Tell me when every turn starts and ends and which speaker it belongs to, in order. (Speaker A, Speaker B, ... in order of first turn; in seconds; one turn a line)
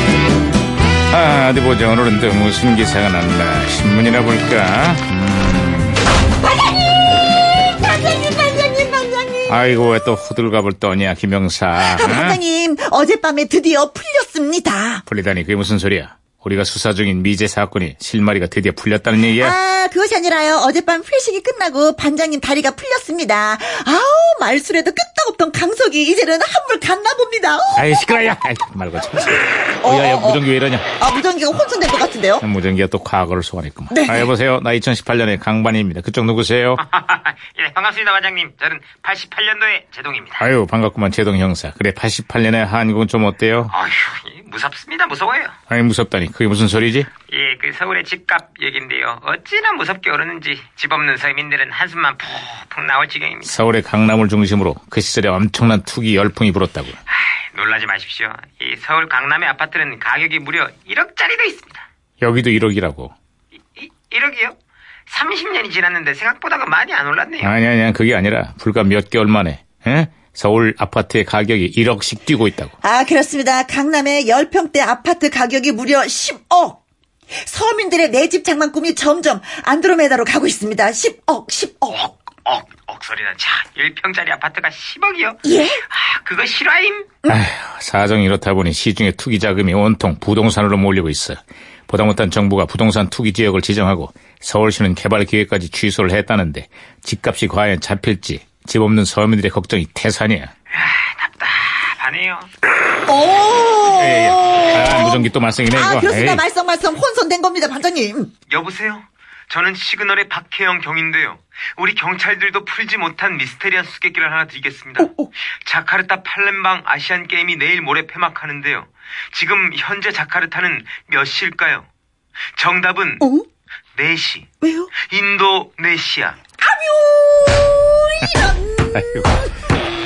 Speaker A: 1.1-6.0
Speaker B: 7.8-9.5
Speaker A: 9.5-12.4
Speaker B: 11.8-15.0
Speaker A: 15.1-19.6
Speaker B: 19.4-27.9
Speaker A: 27.8-30.9
Speaker B: 29.8-30.4
Speaker B: 31.0-32.4
Speaker A: 32.4-36.8
Speaker B: 33.9-34.3
Speaker C: 36.8-40.5
Speaker A: 40.4-43.7
Speaker C: 43.7-45.5
Speaker A: 45.7-47.1
Speaker C: 47.3-53.5
Speaker A: 53.4-57.0
Speaker C: 57.1-61.8
Speaker A: 62.2-63.1
Speaker C: 63.7-64.5
Speaker C: 65.1-67.5
Speaker A: 67.4-72.7
Speaker B: 72.8-76.8
Speaker B: 77.4-82.2
Speaker C: 82.4-87.1
Speaker B: 85.4-85.8
Speaker A: 87.2-100.5
Speaker C: 100.7-102.5
Speaker B: 103.0-108.3
Speaker A: 103.9-106.4
Speaker C: 108.5-121.9
Speaker B: 115.0-115.3
Speaker C: 122.5-123.2
Speaker C: 123.9-126.4
Speaker B: 124.6-124.9
Speaker B: 126.6-129.1
Speaker A: 128.9-129.5